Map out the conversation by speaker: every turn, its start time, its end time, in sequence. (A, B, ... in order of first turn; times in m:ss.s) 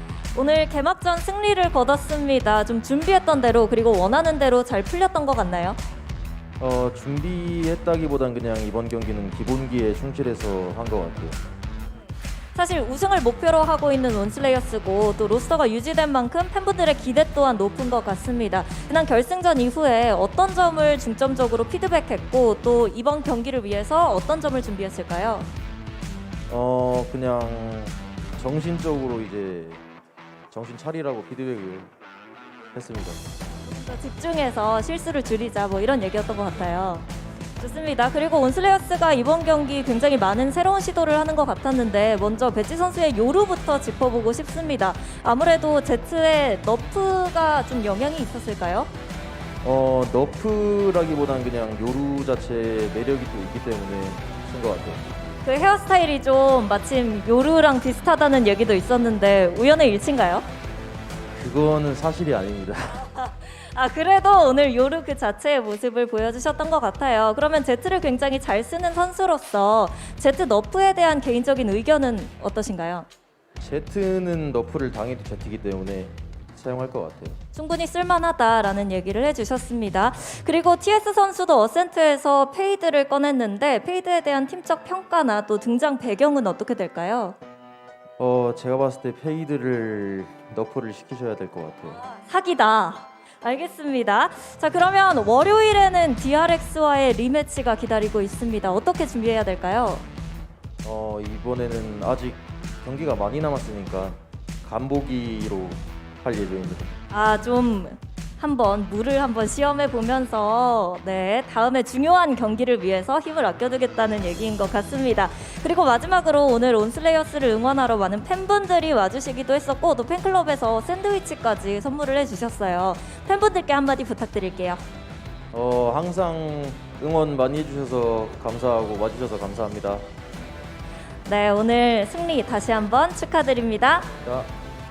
0:00.4-0:05.8 A
0:06.6-0:11.4 B
0:12.6-0:25.5 A
0:26.5-0:29.8 B
0:30.5-0:31.9 B
0:32.7-0:33.2 B
0:33.7-0:37.1 A
0:37.6-0:48.9 A
0:49.6-0:55.0 B
0:55.4-1:00.5 A
1:01.4-1:03.0 B
1:02.9-1:13.1 A
1:13.6-1:17.4 B
1:17.5-1:27.4 A
1:28.2-1:32.0 B
1:32.0-1:40.0 A
1:40.8-1:46.9 B
1:47.1-2:04.8 A
2:05.5-2:10.0 B
2:11.3-2:14.1 A
2:14.2-2:14.5 B